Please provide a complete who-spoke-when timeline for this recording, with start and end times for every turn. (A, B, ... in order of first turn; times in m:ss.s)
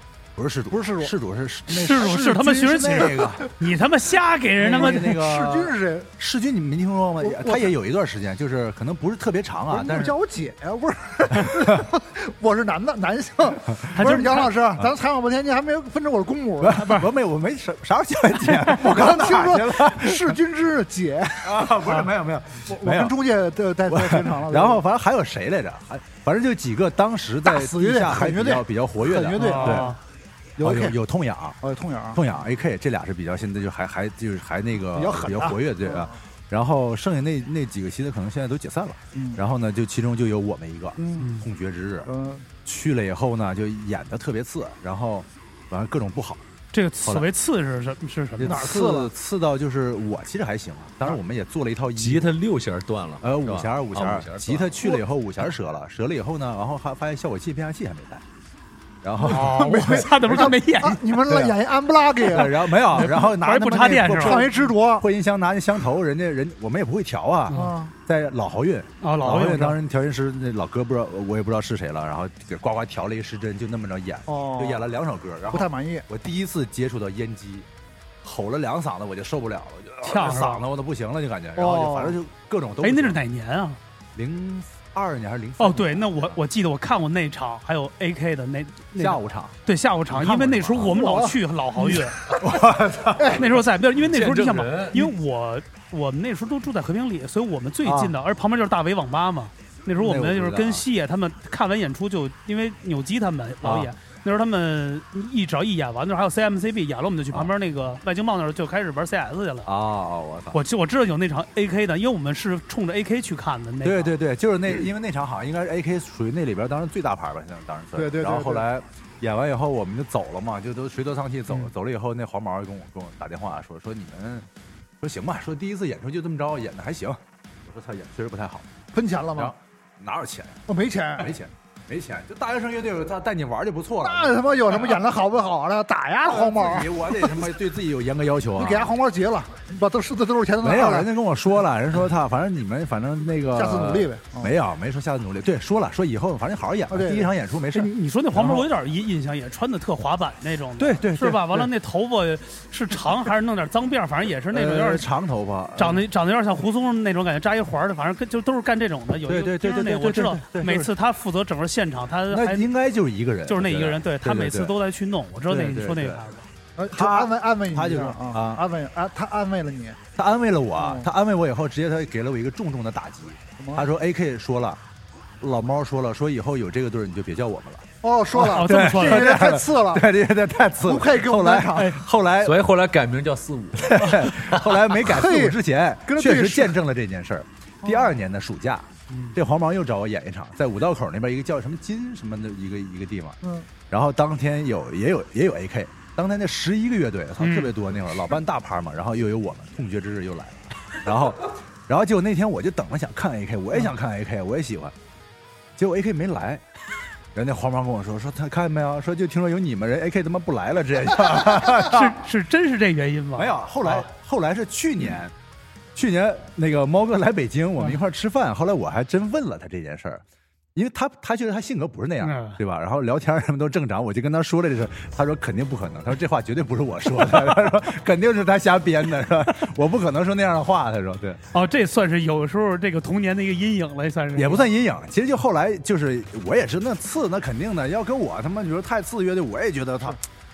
0:00.4-0:03.5 A
0:00.7-0:01.1 B
0:01.7-0:05.2 C
0:02.8-0:03.5 B
0:04.6-0:10.1 A
0:04.6-0:06.1 B
0:07.2-0:07.7 B
0:09.7-0:16.9 B
0:11.5-0:11.8 A
0:13.9-0:14.5 C
0:16.6-0:20.4 A
0:16.8-0:17.1 C
0:18.6-0:22.0 B
0:21.4-0:23.2 A
0:22.7-0:24.8 B
0:23.8-0:29.9 A
0:27.4-0:30.0 B
0:29.3-0:30.0 C
0:30.6-0:31.6 A
0:30.6-0:31.0 B
0:31.6-0:32.2 B
0:32.1-0:42.1 A
0:34.9-0:36.2 B
0:39.1-0:39.4 B
0:41.0-0:41.3 B
0:41.2-0:41.4 C
0:42.0-0:42.5 B
0:42.6-0:46.4 A
0:46.7-0:48.6 C
0:48.4-0:52.3 A
0:48.4-0:49.1 B
0:52.0-0:54.7 D
0:53.2-0:58.2 A
0:59.0-1:00.5 A
0:59.2-1:01.1 C
0:59.2-1:03.2 B
1:01.2-1:01.6 A
1:02.2-1:17.7 A
1:02.9-1:04.4 C
1:04.1-1:05.0 B
1:07.5-1:07.7 C
1:07.5-1:07.9 B
1:09.0-1:09.8 C
1:14.3-1:14.8 B
1:15.5-1:16.0 B
1:18.2-1:23.2 A
1:20.0-1:20.6 C
1:21.6-1:22.2 B
1:22.8-1:23.8 C
1:24.1-1:26.4 A
1:25.6-1:32.2 C
1:28.9-1:29.5 A
1:30.1-1:31.2 A
1:30.8-1:32.6 B
1:32.3-1:33.5 A
1:33.2-1:33.4 B
1:33.3-1:49.7 C
1:34.0-1:35.0 D
1:37.8-1:38.1 A
1:40.0-1:40.8 A
1:43.6-1:43.9 A
1:49.6-1:50.6 A
1:50.5-1:54.1 C
1:53.8-2:04.5 A
1:57.9-1:58.6 B
2:05.0-2:08.7 A
2:08.9-2:09.5 B
2:09.4-2:15.0 A
2:10.7-2:11.3 B
2:14.0-2:17.5 B
2:16.2-2:18.9 A
2:18.6-2:21.1 B
2:20.6-2:28.7 A
2:23.5-2:24.5 B
2:26.9-2:27.3 B
2:27.7-2:35.1 C
2:30.8-2:31.7 A
2:34.5-2:36.0 A
2:35.8-2:42.7 C
2:39.2-2:40.9 A
2:42.3-2:44.7 A
2:43.5-2:46.4 C
2:45.5-2:46.2 A
2:46.8-2:50.0 B
2:46.9-2:48.6 A
2:50.2-2:54.8 A
2:50.8-2:51.1 B
2:53.6-2:53.9 B
2:55.4-3:02.6 A
2:58.0-3:00.0 B
2:58.5-2:59.4 C
3:00.8-3:02.0 B
3:01.8-3:02.0 C
3:02.4-3:05.0 D
3:03.8-3:13.4 A
3:05.0-3:06.8 B
3:07.8-3:08.1 B
3:09.1-3:09.4 C
3:13.9-3:24.9 A
3:17.4-3:17.7 C
3:25.8-3:26.6 A
3:27.3-3:32.2 A
3:31.6-3:34.1 C
3:33.3-3:35.3 A
3:35.9-3:40.2 A
3:40.7-3:51.4 A
3:42.2-3:42.6 C
3:51.5-3:54.7 C
3:54.3-4:00.2 A